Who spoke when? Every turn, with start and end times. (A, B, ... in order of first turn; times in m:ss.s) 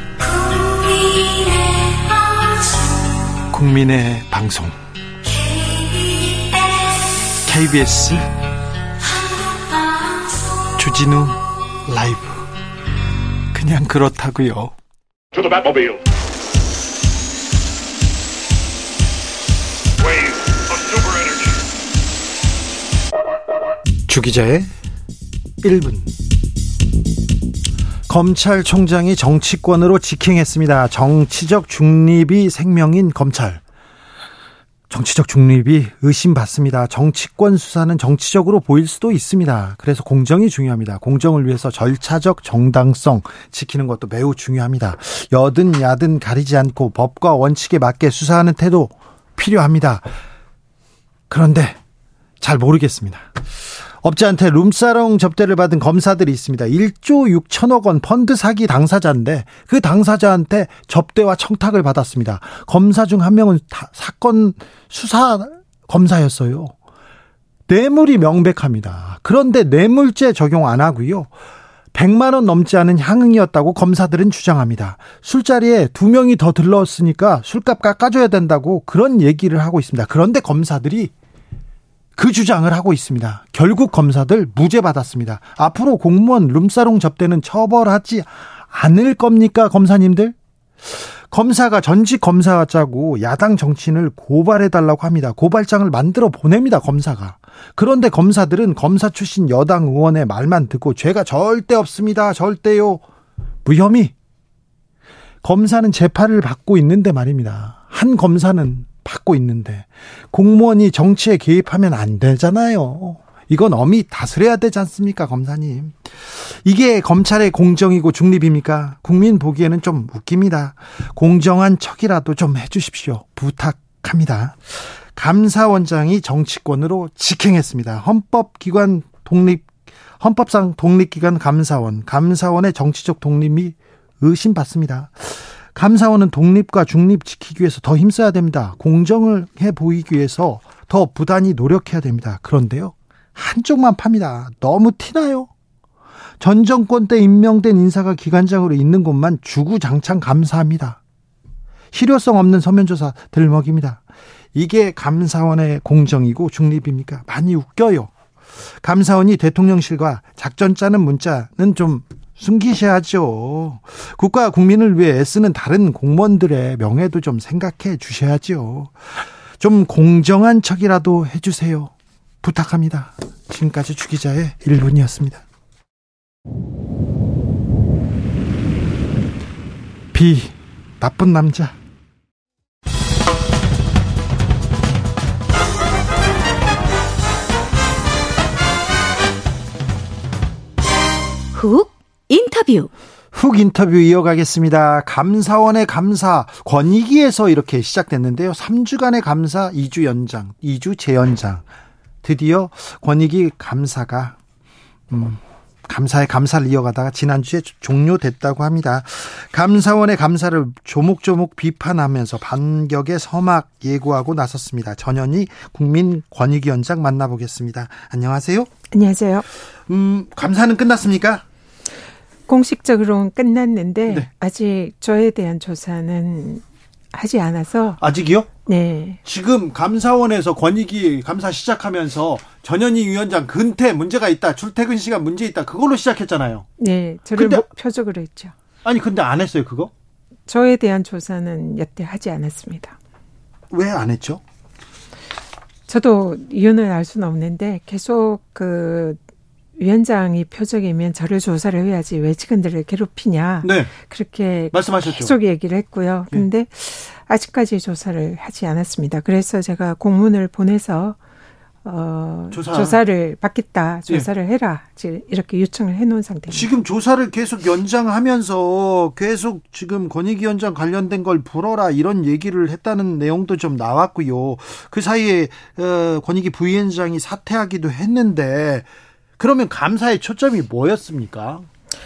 0:00.2-0:03.1 A
0:03.5-0:04.8 B
0:05.5-0:06.7 A
0:07.4-0:08.3 B
0:09.7-0:10.5 A
0:10.7-0:12.5 B
0:13.5-0:14.7 B
0:15.4-0:15.8 A
0:24.1-0:24.7 B
0:25.6-0:26.1 B
0:28.1-0:33.6 B
0:34.9-0:50.1 B
0:51.3-0:51.8 B
0:52.4-0:53.4 B
0:53.9-1:06.7 B
1:07.7-1:11.3 B
1:11.9-1:21.1 B
1:22.2-1:43.0 B
1:43.6-1:44.1 B
1:45.4-2:09.7 B
2:10.2-2:25.5 B
2:26.4-2:31.0 B
2:31.9-2:34.0 B
2:34.5-2:38.1 B
2:38.8-2:49.0 B
2:49.6-2:55.4 B
3:00.1-3:01.7 B
3:11.5-3:12.9 A
3:13.3-3:21.6 B
3:22.2-3:24.4 B
3:25.1-3:38.7 B
3:38.9-3:39.4 C
3:39.9-3:41.4 B
3:42.5-3:48.0 C
3:48.0-3:48.5 B
3:48.6-3:49.2 C
3:49.2-3:56.7 B
3:56.8-3:58.5 C
3:57.4-3:57.6 B
3:58.8-3:59.9 B
4:00.5-4:03.0 C
4:03.7-4:04.4 B
4:05.9-4:09.2 C
4:09.8-4:21.2 C
4:13.6-4:13.9 B
4:14.7-4:15.3 B
4:21.8-4:26.7 C
4:22.5-4:23.0 B
4:26.5-4:38.9 B
4:39.4-4:41.7 B